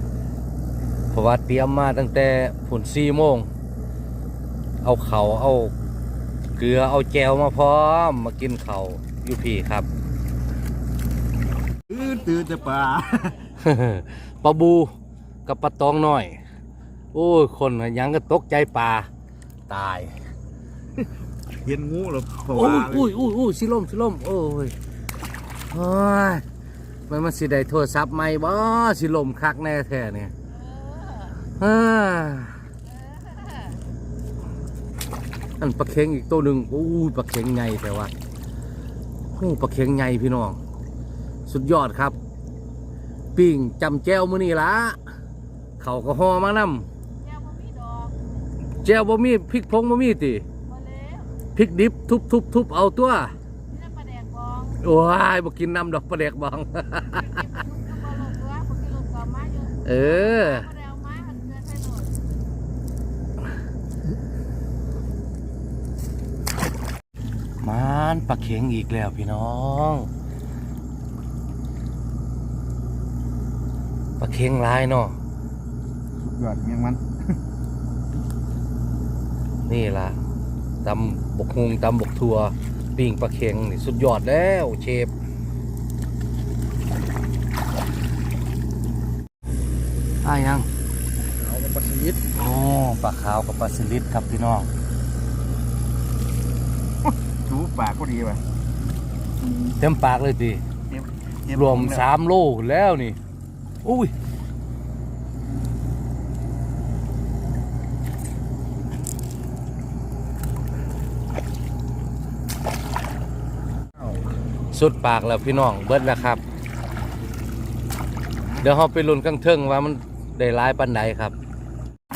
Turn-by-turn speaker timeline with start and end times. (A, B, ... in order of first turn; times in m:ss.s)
0:01.1-0:03.5 A
0:04.8-0:05.7 A
0:06.6-0:09.9 A
0:11.9-0:13.4 B
0:13.6-0:14.9 A
0:15.5-0:16.4 A
0:17.1-0:19.1 A
0:19.7-0:20.1 A
0:21.6-0:23.1 B
0:22.5-0:24.7 A
0:25.7-0:26.4 A
0:27.1-0:30.3 A
0:30.7-0:31.4 C
0:31.6-0:32.6 A
0:33.0-0:33.8 C
0:35.6-0:38.1 A
0:39.3-0:40.6 A
0:41.5-0:42.2 A
0:43.4-0:45.0 A
0:45.8-0:46.9 A
0:47.2-0:48.1 C
0:48.8-0:50.5 A
0:50.7-0:51.3 C
0:51.6-0:53.3 A
0:53.7-0:54.8 C
0:54.8-0:57.5 A
0:57.3-1:02.2 C
0:59.8-1:00.7 A
1:07.6-1:10.1 A
1:14.2-1:15.2 A
1:16.2-1:17.1 B
1:19.7-1:20.2 A
1:20.8-1:25.1 A
1:30.2-1:30.7 A
1:31.4-1:32.2 B
1:32.4-1:34.7 A
1:37.1-1:38.4 B
1:39.8-1:40.6 A
1:40.9-1:42.1 B
1:41.5-1:43.2 A
1:43.8-1:44.1 A
1:54.7-1:56.4 A
1:58.6-2:01.3 A